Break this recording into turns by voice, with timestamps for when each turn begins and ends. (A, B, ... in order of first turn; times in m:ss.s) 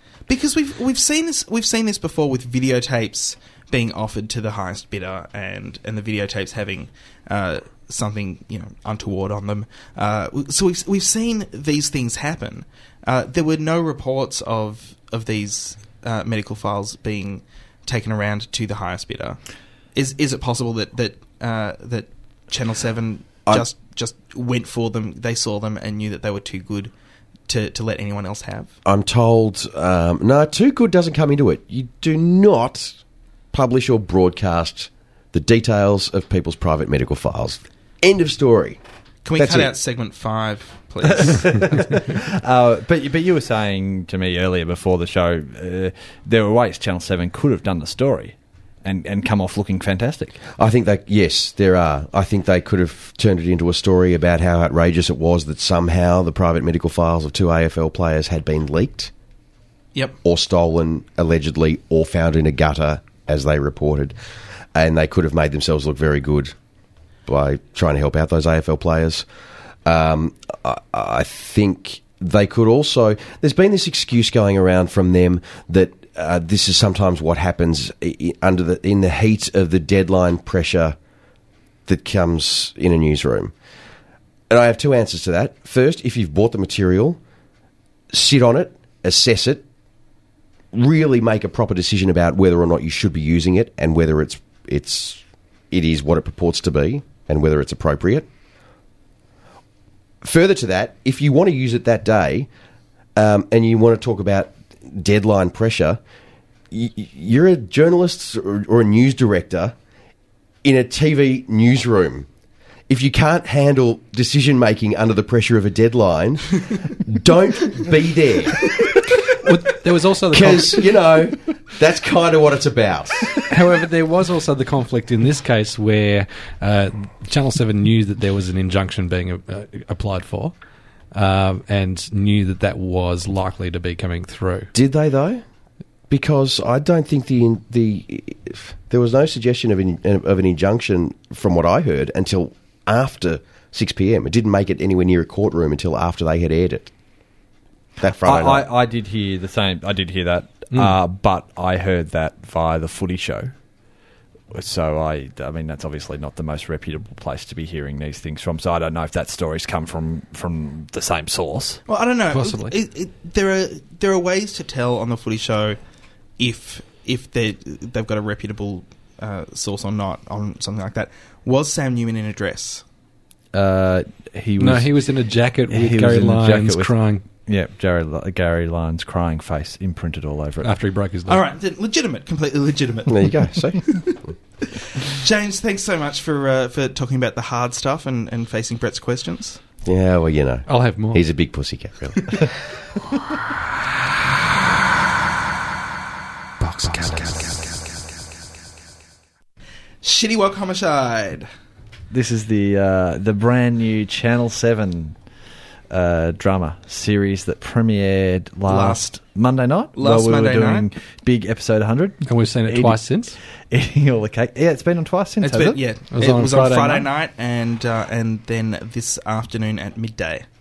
0:00.3-0:19.4 A
0:20.0-0:26.9 A
0:27.5-0:28.7 A
0:28.8-0:33.0 B
0:33.5-0:38.8 B
0:39.2-0:41.8 A
0:39.4-0:39.7 B
0:41.1-0:50.4 C
0:50.6-0:59.1 B
1:00.2-1:04.1 B
1:04.8-1:06.5 B
1:07.3-1:09.2 B
1:09.8-1:21.0 B
1:21.9-1:23.5 B
1:24.5-1:27.2 B
1:28.1-1:29.6 B
1:30.7-1:38.3 B
1:40.2-1:42.5 B
1:43.2-1:46.0 B
1:46.7-1:49.8 B
1:50.6-1:52.3 B
1:52.9-1:58.9 B
1:59.4-2:00.8 D
2:00.3-2:03.4 B
2:03.5-2:10.5 D
2:11.1-2:14.7 D
2:14.7-2:15.4 B
2:16.1-2:26.9 B
2:28.0-2:28.7 B
2:28.2-2:33.5 C
2:30.7-2:31.0 D
2:34.5-2:41.8 C
2:41.9-2:45.8 A
2:42.3-2:42.7 D
2:46.4-2:52.8 A
2:53.5-2:54.9 C
2:54.6-2:57.2 D
2:55.7-3:00.7 C
3:00.6-3:01.4 D
3:01.3-3:04.1 A
3:03.1-3:04.3 B
3:04.6-3:09.6 A
3:09.8-3:12.6 B
3:10.7-3:11.2 D
3:20.0-3:21.5 A
3:22.1-3:25.2 C
3:25.9-3:35.8 C
3:28.7-3:29.1 A
3:30.0-3:30.9 A
3:32.3-3:33.4 D
3:35.4-3:40.4 A
3:36.1-3:37.1 D